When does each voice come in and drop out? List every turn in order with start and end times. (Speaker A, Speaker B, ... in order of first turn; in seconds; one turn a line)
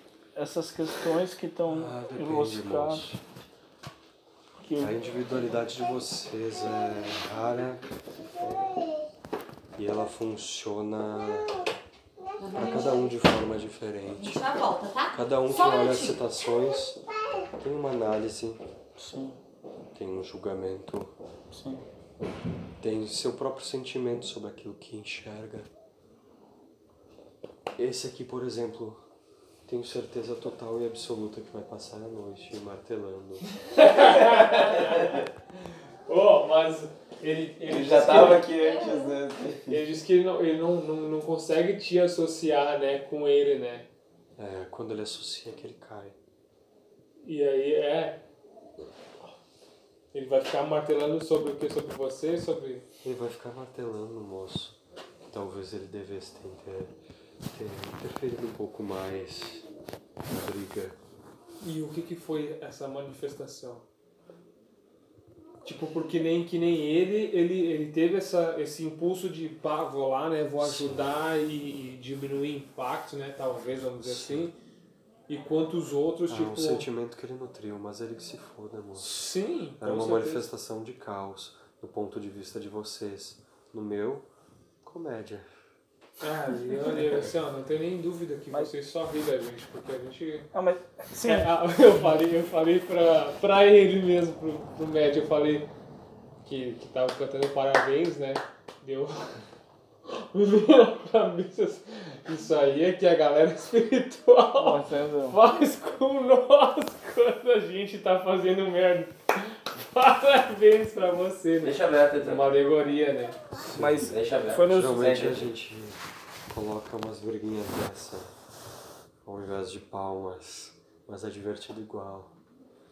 Speaker A: 0.3-3.0
Speaker B: 1.6-3.2
Speaker A: 4.6-5.0
Speaker B: 4.8-7.8
Speaker B: 8.4-8.8
Speaker B: 9.8-11.7
Speaker C: 12.4-13.1
Speaker B: 12.5-14.4
Speaker C: 14.0-16.1
Speaker B: 15.1-17.0
Speaker B: 17.6-18.6
Speaker A: 19.0-19.4
Speaker B: 19.9-21.1
Speaker A: 21.5-21.8
Speaker B: 22.8-25.7
Speaker B: 27.8-29.0
Speaker B: 29.6-33.4
Speaker D: 33.6-35.2
Speaker D: 36.0-38.6
Speaker E: 37.6-39.8
Speaker C: 38.6-39.1
Speaker D: 39.7-43.9
Speaker B: 44.4-46.2
Speaker D: 47.2-48.2
Speaker D: 50.1-52.8
Speaker B: 53.0-54.8
Speaker B: 55.3-57.0
Speaker B: 57.5-59.6
Speaker B: 60.3-61.0
Speaker D: 61.6-63.9
Speaker D: 65.6-74.6
Speaker B: 70.6-71.0
Speaker B: 74.0-74.5
Speaker D: 75.3-76.9
Speaker B: 76.3-79.1
Speaker D: 79.0-80.4
Speaker B: 79.8-84.3
Speaker B: 84.8-85.5
Speaker D: 86.2-90.5
Speaker A: 90.5-91.5
Speaker D: 91.1-95.7
Speaker D: 96.4-99.4
Speaker D: 100.1-113.4
Speaker A: 104.5-105.4
Speaker E: 111.6-112.5
Speaker B: 113.5-118.3
Speaker A: 113.7-115.0
Speaker E: 114.0-115.5
Speaker B: 119.2-122.3